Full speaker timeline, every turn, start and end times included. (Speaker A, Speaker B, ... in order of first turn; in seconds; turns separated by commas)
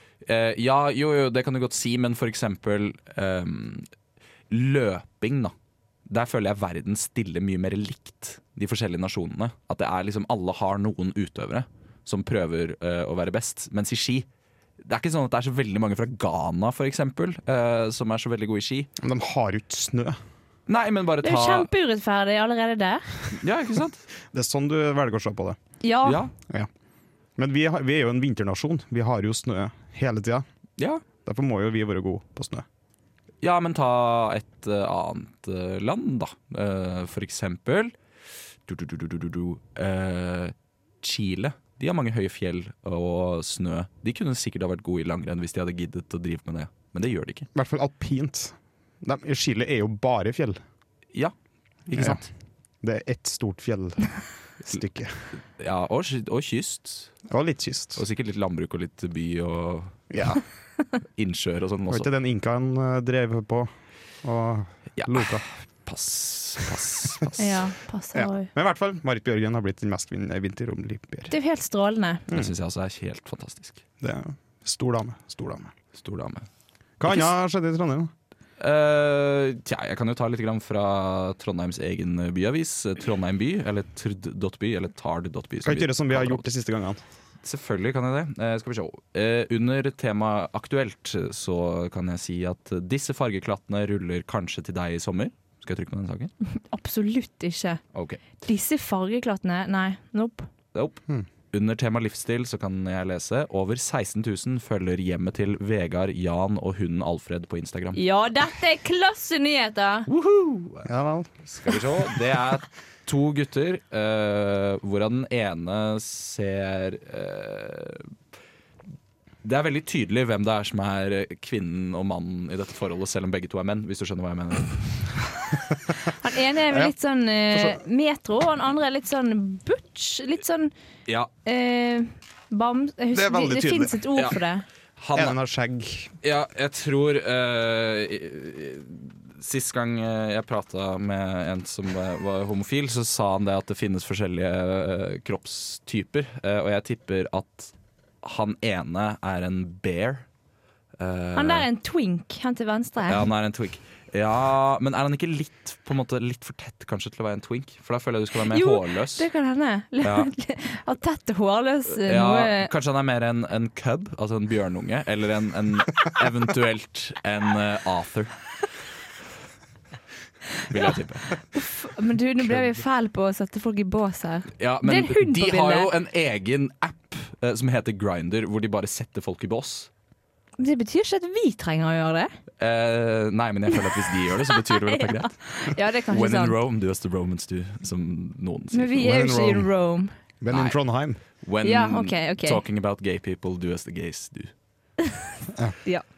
Speaker A: 0.2-3.9, Speaker A: 4.5-5.5, Speaker A: 6.1-14.3, Speaker A: 14.8-18.9, Speaker B: 19.0-20.2, Speaker A: 20.7-21.7, Speaker C: 21.2-23.2, Speaker A: 23.3-24.0, Speaker B: 24.3-25.6, Speaker C: 25.8-26.2, Speaker A: 26.0-26.3, Speaker B: 27.4-30.5, Speaker A: 30.8-31.0, Speaker B: 31.2-32.7, Speaker A: 33.4-37.9, Speaker A: 38.7-47.5, Speaker B: 47.5-50.6, Speaker A: 51.9-52.3, Speaker B: 51.9-52.2, Speaker B: 52.8-55.3, Speaker A: 55.4-57.1, Speaker B: 57.3-58.0, Speaker A: 58.0-60.1, Speaker B: 60.1-60.4, Speaker A: 61.2-62.1, Speaker B: 61.9-63.7, Speaker B: 64.2-65.4, Speaker A: 65.0-67.7, Speaker C: 67.4-68.5, Speaker B: 68.1-71.3, Speaker C: 71.3-72.3, Speaker A: 72.3-73.8, Speaker B: 74.0-75.7, Speaker A: 76.0-76.5, Speaker B: 77.0-78.1, Speaker A: 78.6-86.5, Speaker B: 85.6-87.0, Speaker A: 87.4-96.3, Speaker C: 96.5-97.8, Speaker A: 97.9-98.2, Speaker C: 98.4-100.5, Speaker A: 100.7-101.0, Speaker A: 101.5-108.0, Speaker C: 108.0-110.1, Speaker A: 110.1-110.9, Speaker B: 110.8-111.3, Speaker A: 111.5-118.1, Speaker A: 119.4-125.3, Speaker C: 126.1-130.7, Speaker B: 127.5-127.8, Speaker C: 131.4-134.7, Speaker B: 133.1-134.0, Speaker A: 135.0-135.4, Speaker B: 135.2-136.1, Speaker A: 136.2-150.3, Speaker A: 151.0-151.7, Speaker C: 151.3-153.3, Speaker A: 153.1-159.3, Speaker C: 158.5-162.7, Speaker A: 160.0-160.3, Speaker A: 162.0-168.3, Speaker A: 170.7-171.4, Speaker C: 171.5-175.9, Speaker A: 174.6-179.9, Speaker C: 180.6-182.3, Speaker A: 182.6-189.2, Speaker C: 184.5-186.6, Speaker C: 188.7-190.1, Speaker B: 189.0-189.7, Speaker B: 190.4-191.2, Speaker A: 190.5-190.8, Speaker A: 191.4-194.5, Speaker C: 191.6-192.6